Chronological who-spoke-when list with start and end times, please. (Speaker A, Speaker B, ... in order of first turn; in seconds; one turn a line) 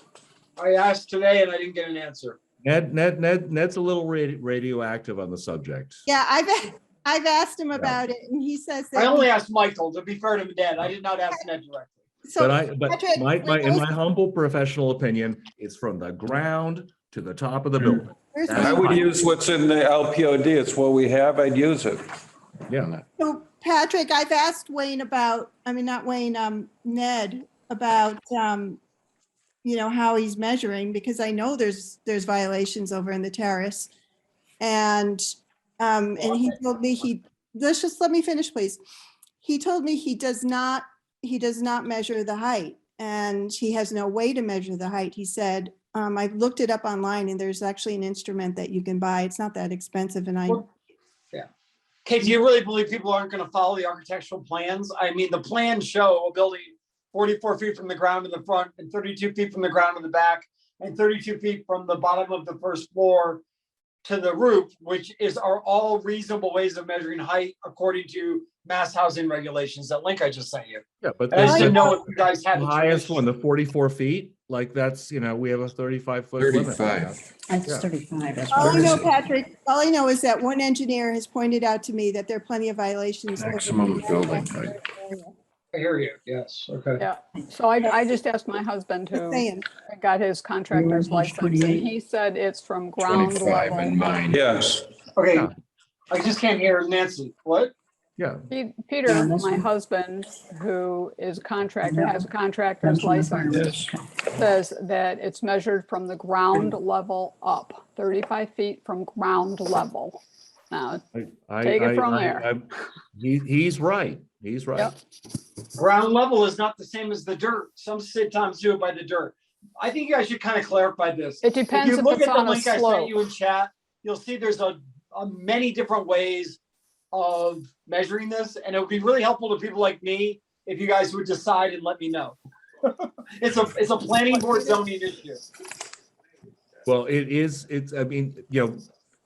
Speaker A: 0.6-2.4
Speaker B: 2.6-6.0
Speaker C: 6.1-9.3
Speaker B: 7.8-8.0
Speaker A: 8.9-12.0
Speaker C: 12.2-13.9
Speaker B: 12.4-19.1
Speaker C: 18.3-19.1
Speaker D: 18.6-22.1
Speaker B: 22.7-22.9
Speaker C: 23.2-28.8
Speaker C: 29.6-33.9
Speaker C: 34.6-38.8
Speaker C: 39.4-50.7
Speaker A: 52.0-63.4
Speaker A: 64.0-73.2
Speaker B: 71.0-77.9
Speaker C: 71.4-72.0
Speaker D: 76.4-77.2
Speaker E: 77.5-79.0
Speaker C: 78.5-85.3
Speaker D: 83.4-84.8
Speaker A: 85.7-87.0
Speaker F: 87.0-94.4
Speaker C: 89.1-89.7
Speaker E: 90.7-91.9
Speaker D: 93.0-94.8
Speaker A: 95.2-95.5
Speaker A: 96.1-97.7
Speaker B: 98.2-98.5
Speaker F: 98.5-103.6
Speaker E: 99.1-99.7
Speaker E: 101.8-102.2
Speaker E: 102.8-104.1
Speaker D: 103.5-103.9
Speaker F: 104.4-110.2
Speaker F: 110.7-111.0
Speaker B: 111.2-114.9
Speaker F: 111.6-112.5
Speaker A: 115.8-126.6
Speaker F: 121.4-123.2
Speaker A: 127.1-132.4
Speaker A: 133.4-135.4
Speaker B: 136.9-138.9